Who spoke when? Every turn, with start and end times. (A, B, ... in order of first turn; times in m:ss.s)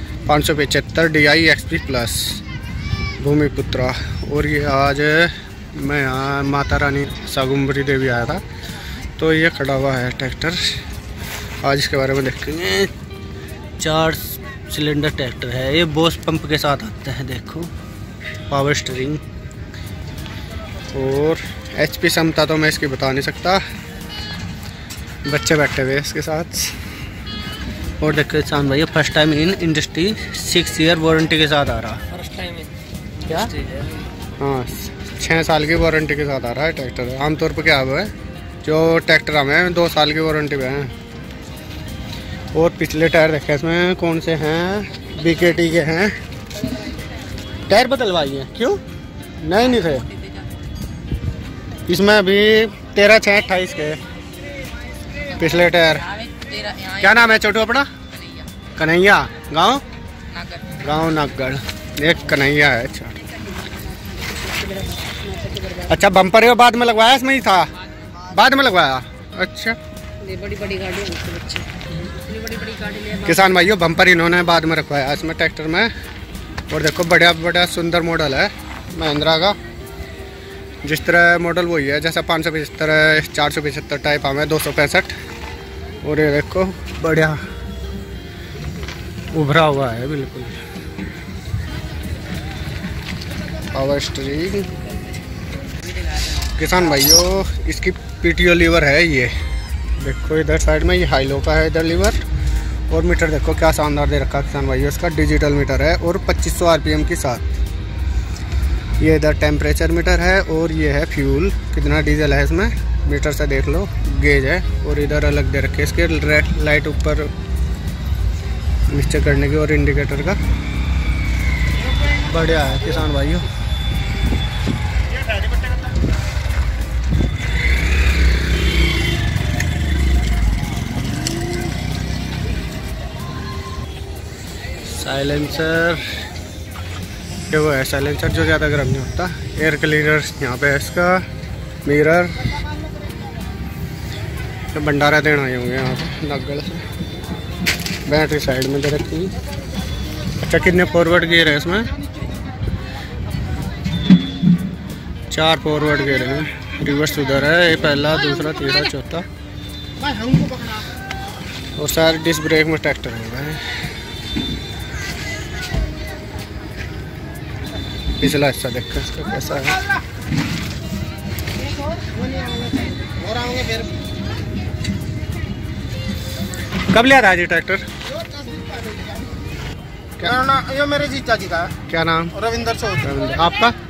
0:00.3-0:02.4 A
0:03.2-0:08.4 A
0:09.2-0:10.7 A
0:11.6-0:12.9 A
0:13.8-0:17.7 A
0:18.5-0:19.2 A
0:20.9-0:23.6 A
0:25.3-0:26.8 A
0:28.0-0:32.2 A
0:32.3-0:32.6 B
0:34.4-0:38.1 A
0:38.6-0:40.9 A
0:42.5-0:46.2 A
0:47.7-0:48.8 A
0:49.4-0:50.1 A
0:51.9-0:54.0 A
0:55.4-0:56.2 A
0:56.1-0:57.2 B
0:57.0-0:57.9 A
0:58.1-0:58.5 B
0:58.8-0:59.8 A
1:00.3-1:00.8 B
1:00.8-1:03.2 A
1:04.0-1:05.8 B
1:05.8-1:07.7 A
1:08.2-1:09.8 A
1:10.2-1:13.2 B
1:13.2-1:15.9 A
1:16.7-1:19.6 A
1:20.8-1:25.1 A
1:26.0-1:27.4 A
1:29.3-1:30.6 A
1:33.7-1:34.7 A
1:36.4-1:39.3 A
1:40.0-1:42.2 A
1:42.9-1:47.6 A
1:49.0-1:57.3 A
1:58.9-2:00.4 A
2:02.2-2:03.5 A
2:14.8-2:16.1 A
2:17.5-2:21.2 A
2:21.8-2:22.5 A
2:24.7-2:26.8 A
2:28.1-2:29.3 A
2:30.4-2:31.9 A
2:35.3-2:39.3 A
2:40.0-2:40.8 C
2:41.8-2:43.6 A
2:48.2-2:49.8 A
2:52.0-2:54.0 C
2:56.9-2:57.8 A
2:58.3-2:59.1 C
3:00.2-3:01.8 C
3:01.8-3:02.4 A
3:02.4-3:03.0 C
3:03.0-3:03.8 A